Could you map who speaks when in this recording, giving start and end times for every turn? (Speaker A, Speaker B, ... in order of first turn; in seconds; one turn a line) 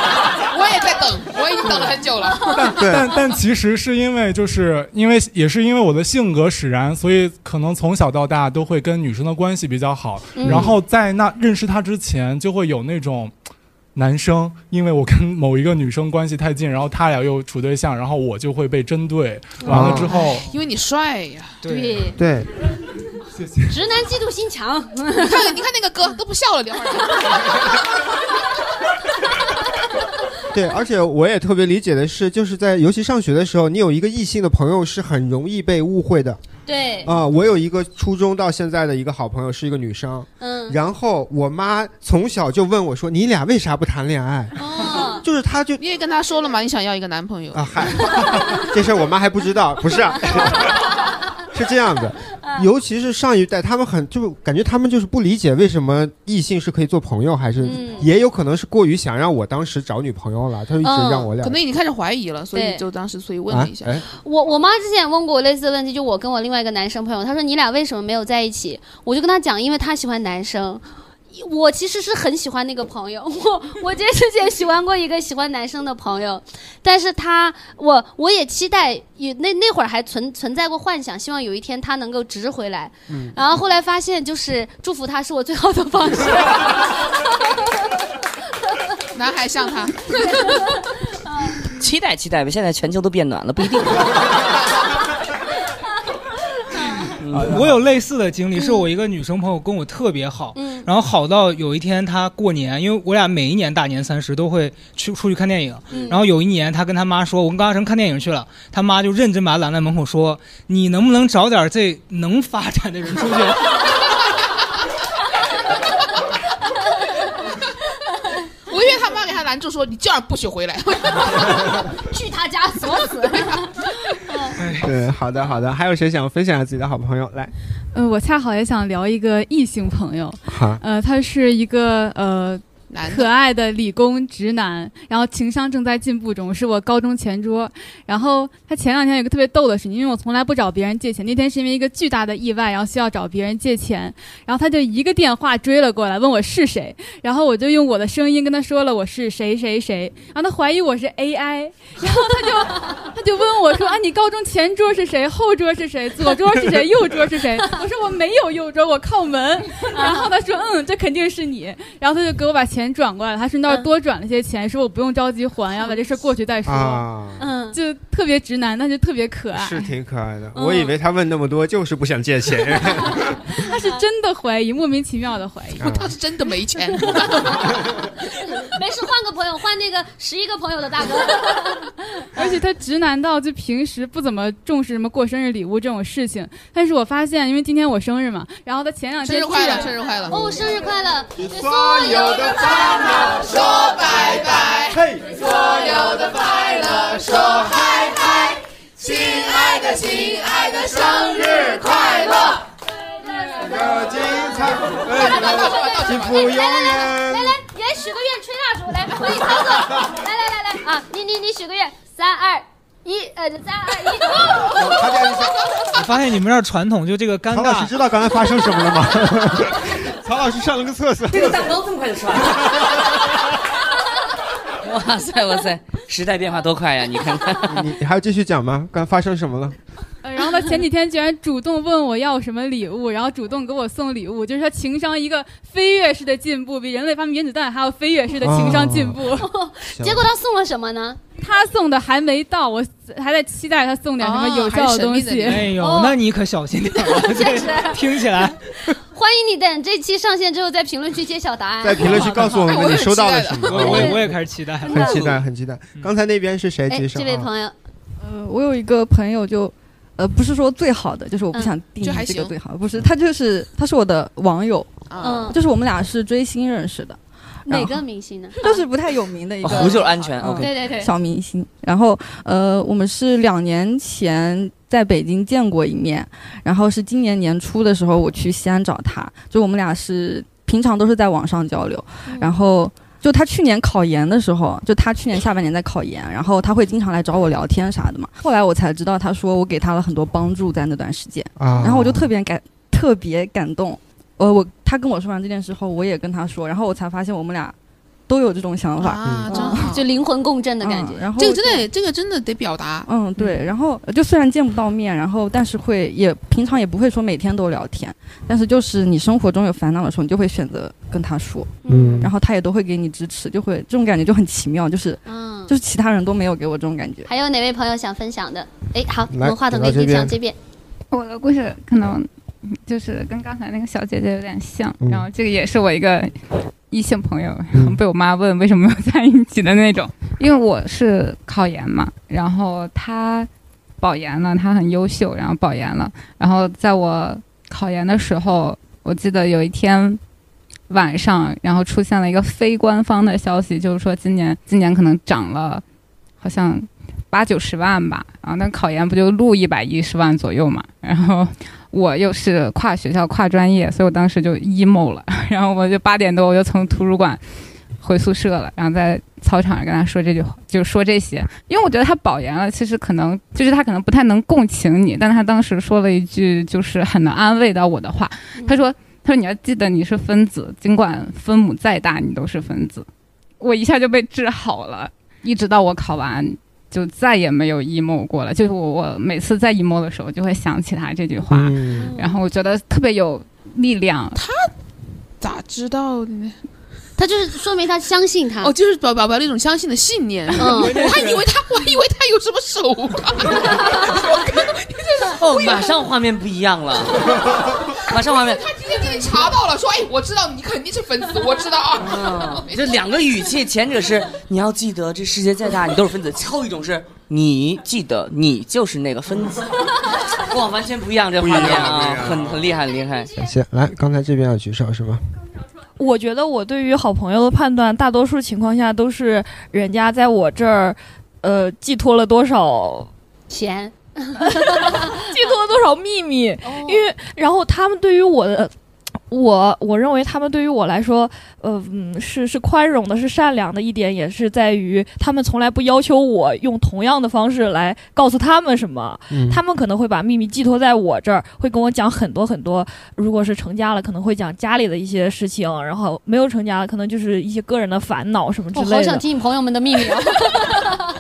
Speaker A: 0.5-2.8
Speaker B: 2.5-13.3
Speaker C: 2.8-3.1
Speaker D: 10.4-10.7
Speaker C: 10.4-10.7
Speaker B: 13.9-20.5
Speaker C: 19.7-20.1
Speaker A: 20.5-21.6
Speaker E: 21.6-22.1
Speaker D: 21.7-22.2
Speaker C: 22.2-22.5
Speaker B: 23.4-23.7
Speaker D: 23.7-25.5
Speaker A: 25.2-27.3
Speaker C: 30.5-36.4
Speaker D: 36.7-37.1
Speaker C: 37.0-45.8
Speaker D: 40.4-40.8
Speaker D: 44.6-45.2
Speaker A: 45.8-47.7
Speaker C: 47.5-50.7
Speaker C: 51.5-61.6
Speaker D: 57.6-58.1
Speaker D: 60.8-61.3
Speaker A: 61.4-64.0
Speaker D: 62.5-62.8
Speaker C: 63.5-64.0
Speaker D: 64.1-87.1
Speaker C: 83.1-83.3
Speaker A: 89.2-90.3
Speaker D: 90.1-91.6
Speaker F: 91.8-94.2
Speaker F: 97.2-97.6
Speaker C: 97.4-97.6
Speaker E: 97.4-113.8
Speaker D: 98.6-98.8
Speaker D: 100.5-100.9
Speaker D: 105.9-106.2
Speaker A: 118.7-121.9
Speaker D: 122.0-124.6
Speaker E: 124.6-124.9
Speaker C: 124.8-127.5
Speaker G: 127.9-167.1
Speaker C: 130.5-130.8
Speaker A: 132.9-133.3
Speaker D: 152.0-153.0
Speaker D: 159.8-160.3
Speaker C: 166.7-167.5
Speaker D: 167.4-167.8
Speaker G: 167.7-169.9
Speaker C: 169.5-173.4
Speaker D: 170.6-170.9
Speaker G: 173.5-176.0
Speaker C: 175.8-176.1
Speaker A: 175.8-177.6
Speaker D: 178.2-181.9
Speaker G: 182.3-189.9
Speaker A: 189.2-190.4
Speaker D: 190.2-194.0
Speaker C: 191.4-193.7
Speaker A: 193.8-195.0
Speaker C: 194.9-196.4
Speaker D: 195.4-198.0
Speaker A: 196.9-197.4
Speaker C: 199.1-199.9
Speaker D: 199.1-202.6
Speaker A: 199.9-200.6
Speaker C: 200.7-201.8
Speaker D: 203.2-215.5
Speaker C: 203.6-207.6
Speaker A: 205.1-206.7
Speaker C: 214.8-215.6
Speaker E: 215.9-217.9
Speaker C: 217.5-221.7
Speaker F: 221.3-223.0
Speaker F: 224.8-227.9
Speaker C: 227.6-229.8
Speaker G: 230.2-239.5
Speaker C: 238.4-239.3
Speaker D: 239.4-241.2
Speaker C: 239.9-240.3
Speaker G: 241.4-245.7
Speaker A: 244.2-245.7
Speaker E: 245.4-248.7
Speaker D: 245.8-246.2
Speaker D: 247.0-248.1
Speaker D: 249.1-252.8
Speaker C: 251.8-257.5
Speaker E: 252.0-252.6
Speaker A: 252.6-254.0
Speaker E: 253.7-255.4
Speaker D: 253.7-254.2
Speaker D: 254.8-255.2
Speaker D: 256.9-257.7
Speaker H: 258.2-267.9
Speaker A: 262.0-262.5
Speaker A: 265.1-265.5
Speaker D: 265.2-265.6
Speaker D: 267.7-268.6
Speaker H: 268.6-297.8
Speaker F: 269.6-270.7
Speaker D: 270.6-271.1
Speaker C: 291.6-292.3
Speaker H: 298.3-300.0
Speaker A: 299.0-300.0
Speaker C: 299.2-299.6
Speaker D: 299.5-301.2
Speaker H: 300.8-301.9
Speaker A: 301.4-303.1
Speaker H: 303.1-317.3
Speaker D: 311.8-312.3
Speaker C: 311.9-312.3
Speaker D: 315.3-315.7
Speaker D: 317.3-320.6
Speaker C: 319.3-320.3
Speaker I: 321.1-333.5
Speaker C: 325.0-325.3
Speaker I: 334.0-340.2
Speaker I: 340.9-345.8
Speaker I: 346.4-357.4
Speaker I: 358.0-373.1
Speaker I: 373.6-384.4
Speaker C: 381.5-382.1
Speaker D: 382.0-382.4
Speaker A: 384.4-384.7
Speaker A: 385.4-386.6
Speaker D: 387.2-388.7
Speaker A: 388.6-395.7
Speaker D: 390.6-391.0
Speaker E: 390.6-391.5
Speaker F: 395.4-397.5
Speaker F: 398.1-398.7
Speaker A: 398.4-402.7
Speaker D: 399.0-399.4
Speaker F: 402.0-409.8
Speaker F: 410.4-413.4
Speaker C: 411.4-412.7
Speaker D: 412.9-413.3
Speaker C: 413.4-415.2
Speaker J: 416.0-420.9
Speaker J: 421.4-423.0
Speaker D: 423.5-424.3
Speaker J: 424.5-428.7
Speaker D: 426.6-427.1
Speaker J: 429.3-449.2
Speaker C: 439.3-439.6
Speaker D: 448.7-451.0
Speaker J: 449.9-450.8